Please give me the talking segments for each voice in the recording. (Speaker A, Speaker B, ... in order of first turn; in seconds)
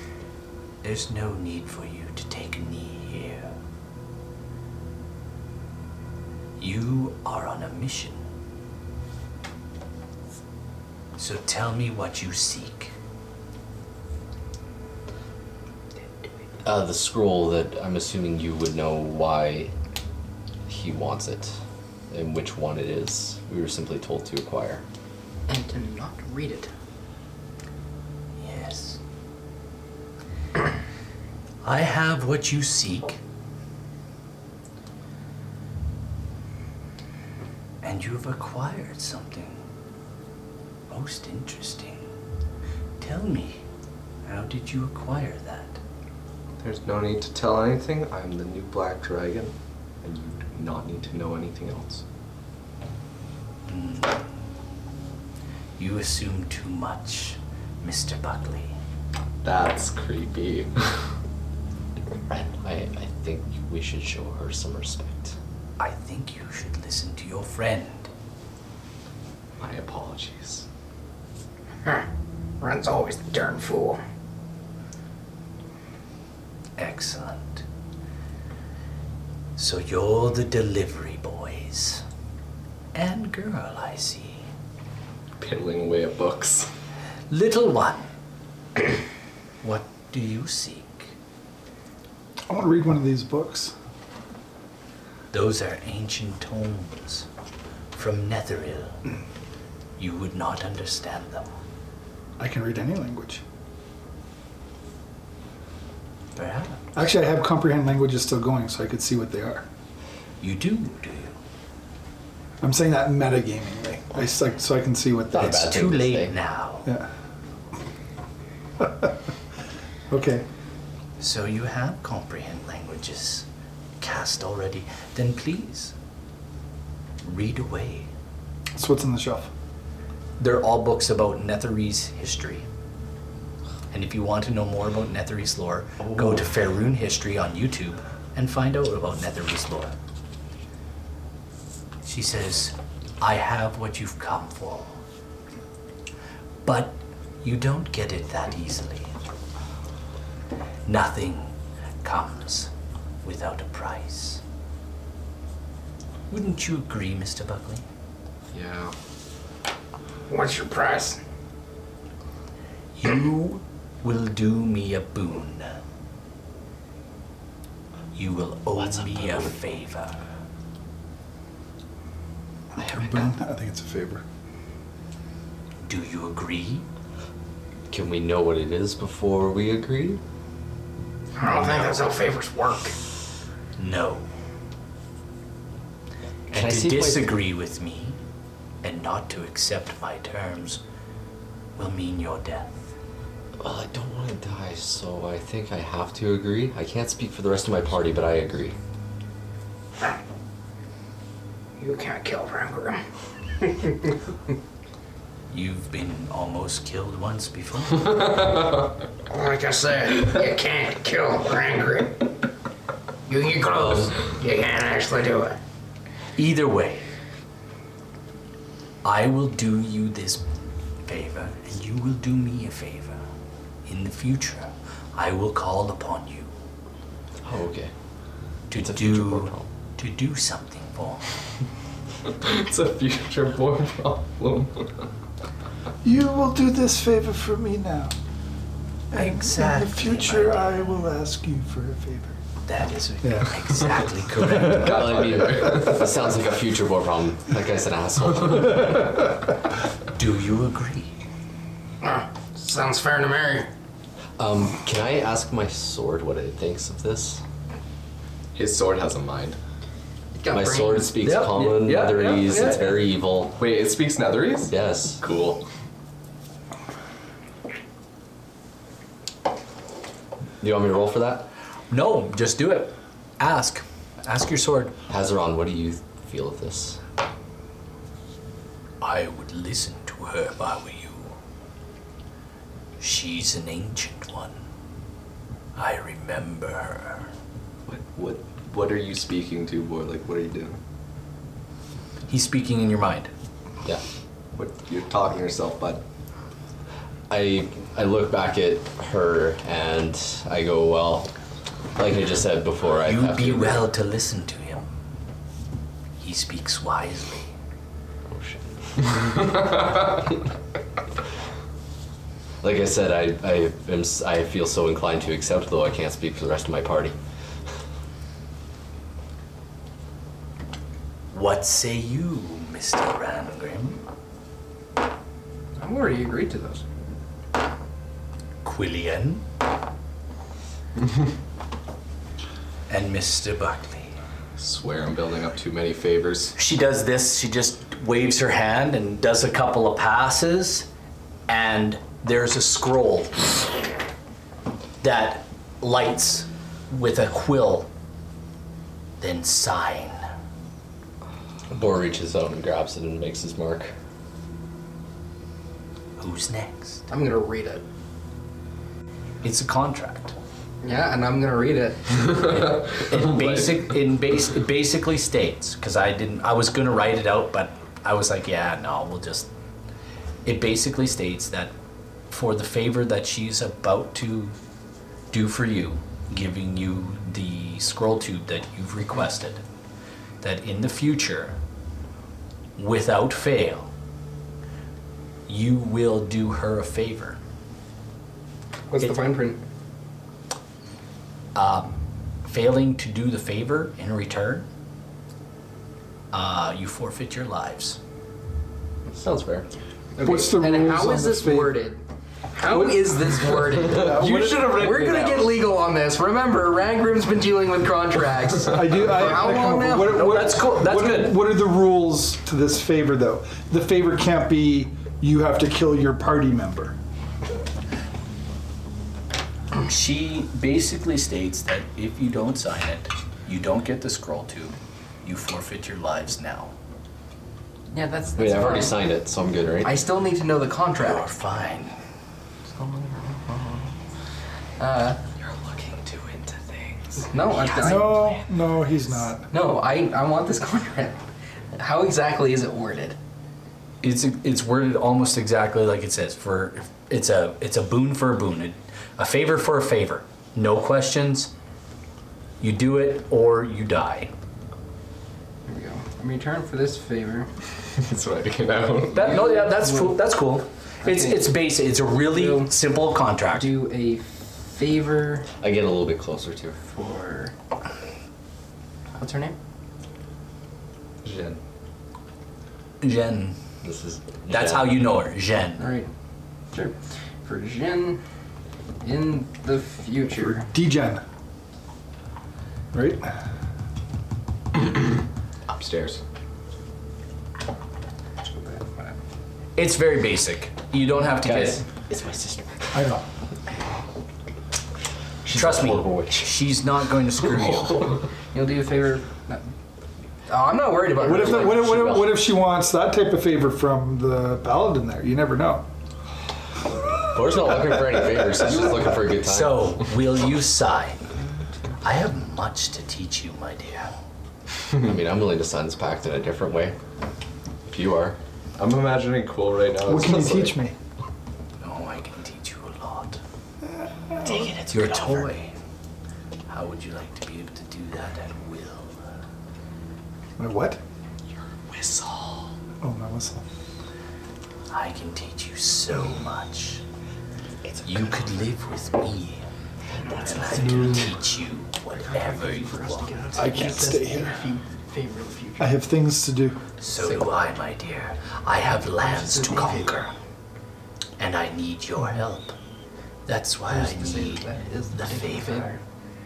Speaker A: 0.8-3.5, 6.6-8.2, 11.2-12.9, 28.4-29.0, 31.6-33.2, 37.8-39.6, 40.9-42.1, 43.0-43.6, 44.2-45.8, 53.7-54.2, 55.8-58.8, 65.8-68.1, 76.8-77.6, 79.5-82.0, 82.9-84.5, 87.3-88.1, 89.6-91.1, 95.3-97.3, 97.9-99.0, 100.0-101.5, 106.3-106.8, 110.4-111.4, 115.4-116.9, 121.2-123.5, 124.0-125.9, 127.2-128.1, 130.4-132.7, 133.9-139.9, 142.0-145.0, 146.6-149.1, 150.9-151.5, 152.0-152.7, 153.2-154.4, 156.3-157.8, 163.0-165.8, 168.1-170.2, 175.8-176.8, 183.8-184.3, 186.5-188.2, 188.8-190.8, 191.8-192.8, 205.5-208.5, 216.3-217.1, 219.0-220.4, 221.1-223.2, 223.8-226.5, 228.7-231.2, 239.1-240.9, 242.7-245.3, 250.2-251.1, 271.9-274.9, 279.0-281.4, 283.0-284.6, 285.8-287.3, 292.3-293.3, 303.0-304.9, 306.2-307.5, 321.3-324.0, 328.6-329.4, 332.9-334.1, 336.5-340.9, 341.5-343.4, 345.0-347.9, 349.2-350.2, 356.2-357.0, 359.4-360.3, 362.6-369.5, 370.4-371.7, 372.3-374.6, 375.3-379.6, 380.4-381.6, 382.8-383.9, 385.5-387.4, 391.5-394.7, 396.3-398.0, 410.0-411.5, 419.8-426.7, 431.0-431.9, 444.0-451.5, 452.6-454.3, 459.1-463.7, 473.0-473.6, 474.5-475.9, 489.8-491.8, 495.5-498.2, 509.4-511.2, 512.0-514.1, 521.8-523.4, 524.4-525.7, 526.7-529.2, 532.3-532.5, 534.9-537.0, 538.0-539.6, 540.3-543.5, 547.0-550.3, 551.4-552.7, 553.5-555.9
Speaker B: 16.6-19.7, 20.7-21.6, 22.1-24.8, 62.3-65.3, 115.3-116.3, 168.9-169.4, 177.9-180.2, 186.5-187.4, 193.6-198.8, 227.4-227.9, 228.7-229.7, 244.5-249.3, 254.4-257.4, 260.5-263.5, 264.7-265.2, 270.6-271.5, 275.1-277.0, 297.3-301.3, 301.9-303.9, 308.3-308.6, 312.6-317.1, 351.7-353.9, 399.2-399.6, 428.4-430.0, 435.6-437.0, 465.6-466.8, 473.8-475.1, 491.4-492.9, 495.4-496.5, 507.3-509.9, 515.0-517.0, 517.9-518.4
Speaker C: 25.5-26.7, 72.6-73.9, 252.6-253.3, 260.4-261.6, 262.3-262.9, 325.8-326.8, 357.1-357.8, 360.8-362.5, 388.9-389.6, 400.1-402.0, 402.5-410.3, 427.9-429.0, 429.8-431.3, 432.7-433.9, 434.8-435.2, 437.2-438.4, 439.5-441.2, 441.7-443.1, 455.7-457.5, 459.3-460.2, 461.0-461.5, 462.2-462.8, 463.5-465.5, 466.9-467.5, 469.1-469.6, 475.8-476.1, 476.7-478.2, 479.0-480.7, 488.4-489.2, 498.5-499.7, 500.5-502.2, 508.8-509.0, 540.3-541.1, 542.2-546.0, 549.1-550.1, 553.9-556.0
Speaker D: 46.6-52.0, 59.4-61.0, 69.6-70.7, 85.4-86.7, 158.5-158.9, 232.3-235.0, 244.7-245.9, 258.5-259.6, 261.4-262.8, 263.5-265.6, 287.9-290.8, 294.5-296.0, 334.6-336.5, 362.3-363.8, 403.4-405.6, 457.9-459.4, 471.2-471.6, 485.7-486.2, 518.8-520.8
Speaker E: 72.6-74.0, 160.3-161.2, 181.4-182.9, 201.8-203.0, 209.3-212.3, 213.3-215.6, 252.0-253.7
Speaker F: 92.5-93.7, 102.4-103.4, 106.9-109.7, 112.6-115.8, 118.8-119.3, 120.1-120.5, 128.7-129.5, 172.7-174.2, 236.0-238.1, 239.1-242.4, 243.2-243.5, 400.2-401.8, 403.8-404.8, 408.7-416.9, 437.7-439.5, 480.6-481.2, 482.9-483.3, 492.9-493.2, 501.2-505.9, 520.0-520.9, 530.6-531.0, 533.0-533.6, 540.7-541.3, 543.5-544.7, 545.8-546.8